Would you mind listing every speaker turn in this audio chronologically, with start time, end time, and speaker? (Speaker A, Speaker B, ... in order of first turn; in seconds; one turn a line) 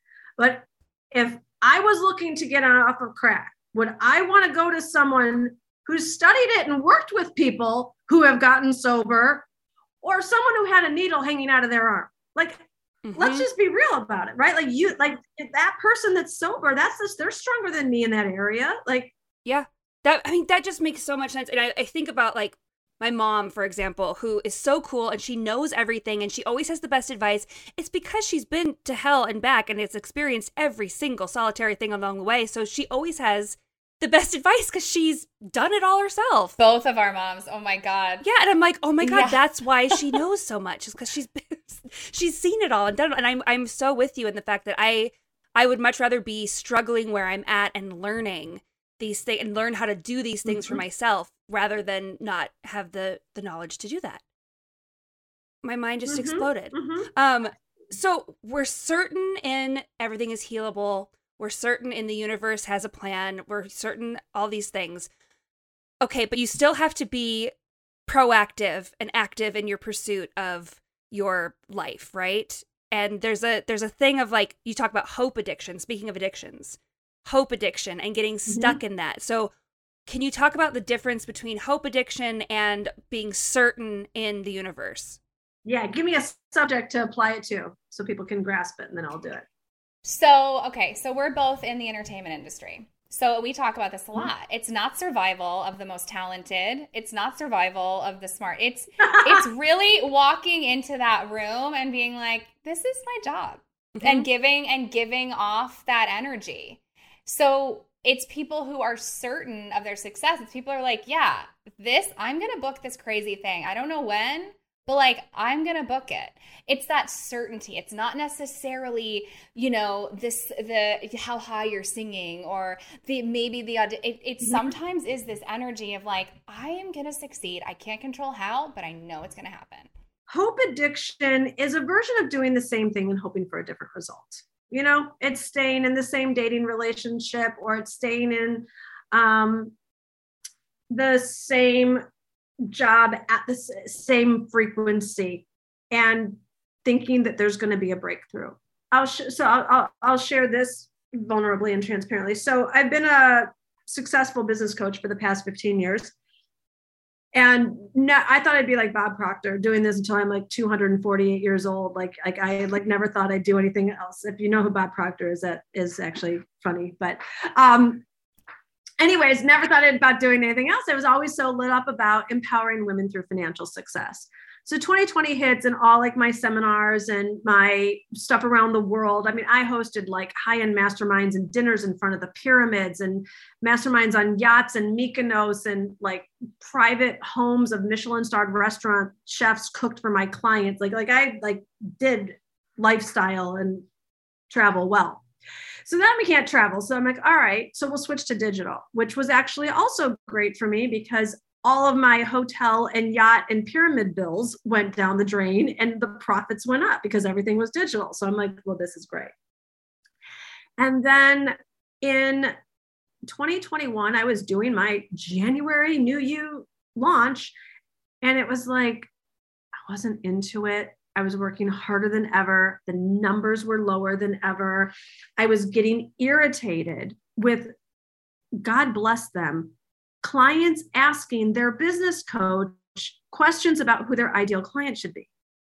Speaker A: 0.4-9.4
Speaker A: 10.0-19.1
Speaker B: 13.0-13.5
Speaker B: 19.4-36.5
Speaker C: 36.6-38.2
Speaker B: 38.2-54.2
Speaker C: 39.0-39.4
Speaker A: 50.4-50.8
Speaker B: 55.6-65.1
Speaker A: 56.0-57.1
Speaker B: 66.0-67.5
Speaker B: 68.1-79.5
Speaker A: 78.5-78.8
Speaker B: 80.1-85.2
Speaker A: 85.7-89.5
Speaker C: 90.0-129.9
Speaker B: 103.9-104.3
Speaker A: 130.3-139.7
Speaker A: 140.9-142.0
Speaker A: 142.7-156.1
Speaker A: 157.3-168.0
Speaker A: 169.0-193.8
Speaker A: 194.5-195.2
Speaker A: 195.8-209.3
Speaker A: 210.8-212.5
Speaker A: 213.2-217.5
Speaker A: 218.2-219.1
Speaker A: 219.8-227.7
Speaker A: 228.6-235.3